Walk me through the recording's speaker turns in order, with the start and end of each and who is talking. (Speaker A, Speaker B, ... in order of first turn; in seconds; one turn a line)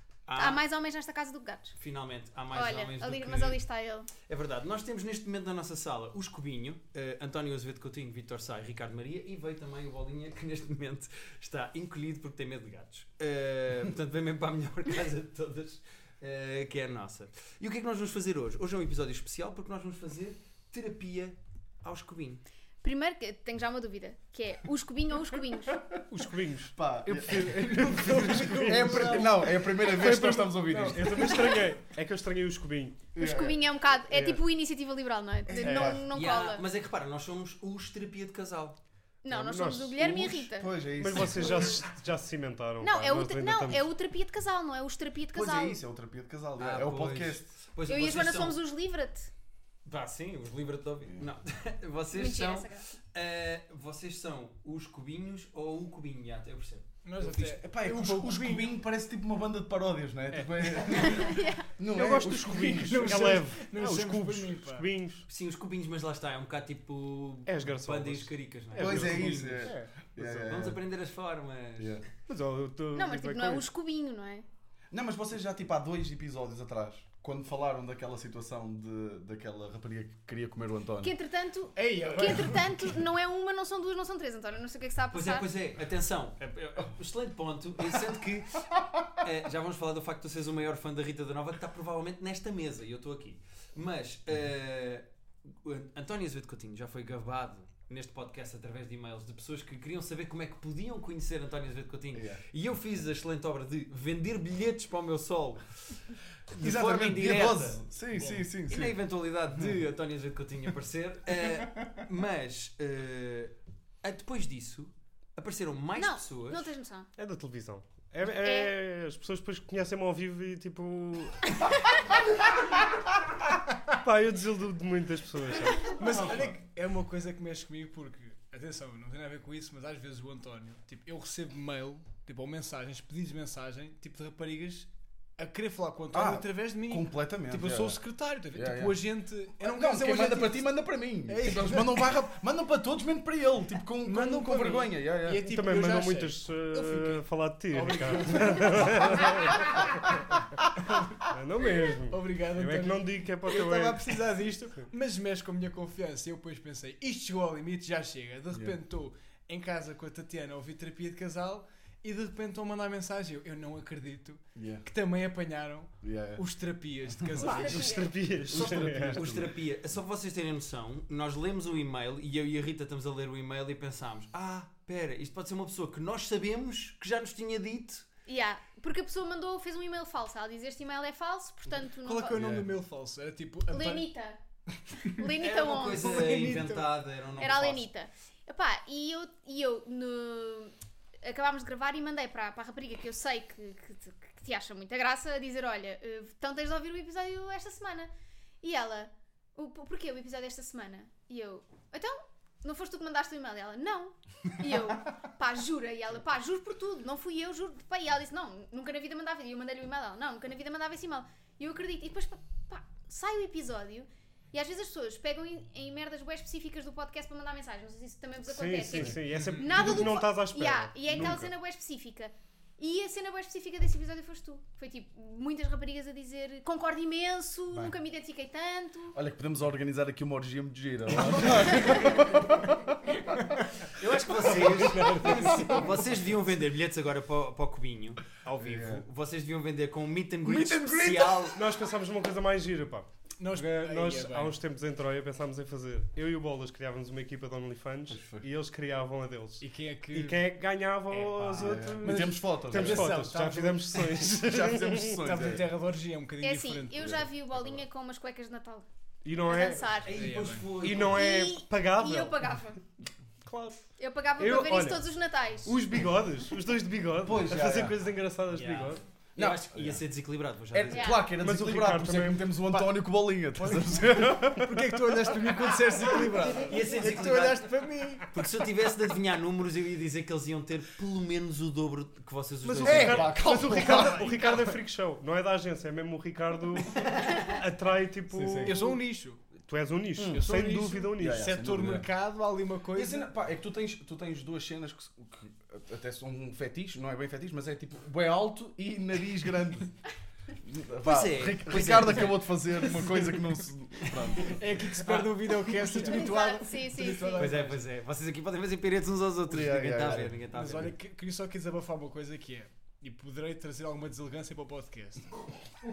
Speaker A: 0.2-0.6
Speaker B: 0.3-1.7
Speaker A: 1.8-3.6
Speaker B: 2.5-4.1
Speaker A: 4.2-22.4
Speaker B: 22.8-25.8
Speaker C: 26.1-33.1
Speaker D: 26.7-31.6
Speaker E: 27.7-29.3
Speaker D: 33.1-33.6
Speaker B: 33.1-36.6
Speaker C: 34.1-34.4
Speaker D: 35.5-36.1
Speaker C: 35.6-36.0
Speaker A: 36.1-38.8
Speaker B: 39.2-40.7
Speaker C: 39.3-40.3
Speaker D: 40.0-41.8
Speaker C: 41.0-43.9
Speaker B: 42.8-45.8
Speaker D: 45.3-47.5
Speaker A: 46.6-48.6
Speaker B: 47.9-49.3
Speaker A: 49.8-57.5
Speaker B: 52.1-52.9
Speaker E: 57.0-58.8
Speaker D: 57.6-63.3
Speaker E: 60.3-61.2
Speaker B: 60.9-61.7
Speaker C: 61.9-65.2
Speaker E: 62.7-64.9
Speaker A: 65.3-72.0
Speaker C: 67.5-69.9
Speaker D: 68.7-70.8
Speaker D: 71.8-72.0
Speaker C: 72.3-73.6
Speaker B: 72.9-74.4
Speaker D: 74.9-81.1
Speaker B: 81.0-85.5
Speaker E: 81.7-83.0
Speaker A: 85.1-106.0
Speaker D: 102.1-102.4
Speaker A: 106.5-116.7
Speaker D: 106.6-109.0
Speaker B: 116.0-117.1
Speaker C: 117.2-121.6
Speaker B: 118.4-118.7
Speaker C: 123.9-126.3
Speaker E: 125.8-140.7
Speaker D: 126.2-126.5
Speaker D: 136.1-138.0
Speaker D: 138.5-139.0
Speaker D: 139.6-145.5
Speaker E: 141.3-142.1
Speaker E: 144.0-147.2
Speaker C: 145.4-149.8
Speaker E: 147.7-150.1
Speaker E: 150.8-151.3
Speaker C: 151.3-154.2
Speaker E: 152.1-168.1
Speaker D: 158.5-158.8
Speaker D: 164.6-164.8
Speaker D: 166.0-166.4
Speaker B: 167.3-168.1
Speaker C: 167.6-169.2
Speaker D: 168.5-169.5
Speaker A: 168.5-178.1
Speaker B: 178.2-182.4
Speaker E: 182.0-184.1
Speaker D: 182.3-182.7
Speaker B: 183.7-184.4
Speaker B: 185.0-186.2
Speaker A: 185.4-187.9
Speaker E: 185.9-186.9
Speaker B: 187.4-198.1
Speaker B: 198.6-229.2
Speaker C: 218.5-221.5
Speaker E: 219.3-219.8
Speaker D: 221.1-221.5
Speaker D: 229.1-232.8
Speaker E: 233.3-233.7
Speaker A: 233.8-241.6
Speaker E: 234.4-236.2
Speaker D: 235.3-235.6
Speaker D: 238.6-239.0
Speaker D: 240.4-241.6
Speaker C: 241.5-255.2
Speaker E: 243.4-244.6
Speaker D: 248.1-248.4
Speaker E: 249.6-250.4
Speaker E: 251.1-254.5
Speaker D: 251.6-253.3
Speaker D: 254.3-255.7
Speaker E: 255.1-257.1
Speaker B: 256.4-258.9
Speaker D: 256.9-257.3
Speaker C: 259.2-259.9
Speaker B: 259.4-260.1
Speaker A: 260.0-261.2
Speaker E: 260.1-260.7
Speaker C: 260.8-262.6
Speaker B: 261.0-262.8
Speaker C: 263.4-263.9
Speaker B: 264.0-265.8
Speaker C: 264.4-265.1
Speaker C: 265.6-269.0
Speaker D: 267.2-268.0
Speaker A: 268.5-271.2
Speaker D: 269.4-270.0
Speaker D: 270.7-274.7
Speaker B: 270.9-271.3
Speaker C: 271.3-272.9
Speaker C: 273.6-275.6
Speaker E: 274.6-278.3
Speaker C: 276.1-276.4
Speaker A: 276.6-277.7
Speaker A: 278.3-283.4
Speaker C: 282.6-289.0
Speaker D: 282.8-284.4
Speaker E: 283.7-284.7
Speaker D: 288.3-288.8
Speaker E: 288.6-289.4
Speaker C: 289.5-291.5
Speaker D: 290.2-290.5
Speaker E: 290.3-293.3
Speaker D: 291.2-292.1
Speaker D: 292.9-299.9
Speaker D: 300.6-304.6
Speaker A: 301.0-302.5
Speaker A: 304.0-304.3
Speaker E: 304.4-307.8
Speaker A: 305.0-305.3
Speaker D: 305.7-306.1
Speaker B: 306.0-307.5
Speaker A: 307.4-310.9
Speaker D: 309.5-310.7
Speaker E: 310.5-315.3